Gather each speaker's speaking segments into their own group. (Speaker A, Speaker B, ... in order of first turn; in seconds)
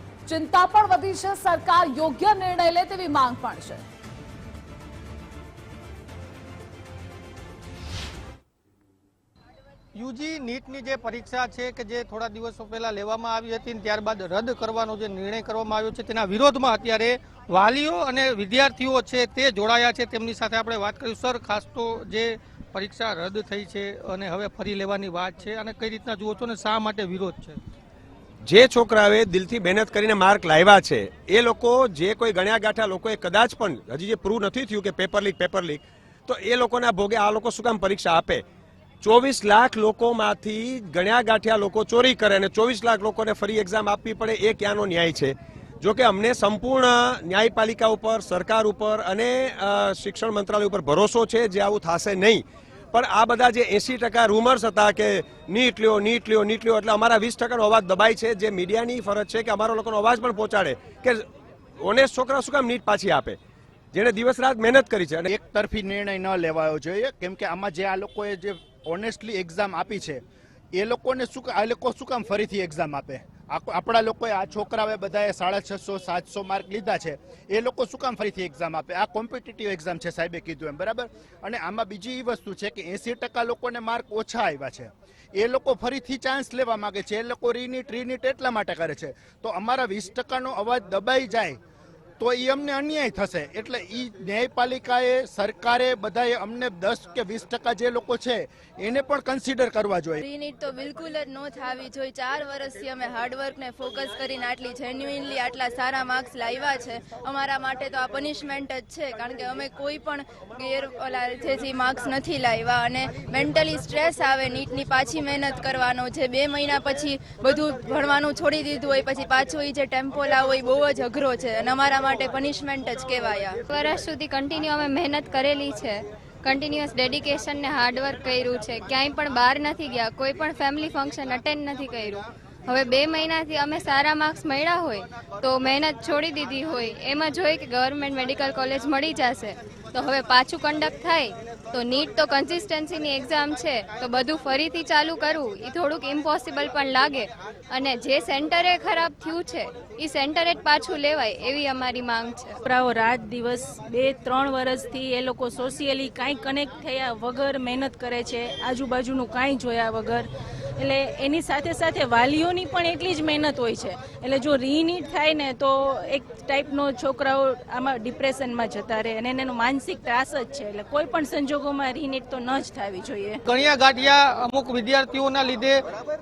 Speaker A: 0.3-3.8
Speaker B: 9.9-27.6, 173.5-175.8
Speaker C: 28.4-38.4, 39.0-61.2, 61.8-63.4, 63.9-65.3
Speaker D: 65.3-70.2, 70.8-91.6, 92.2-100.2
Speaker E: 100.2-123.6
Speaker F: 123.7-152.6
Speaker G: 152.7-173.4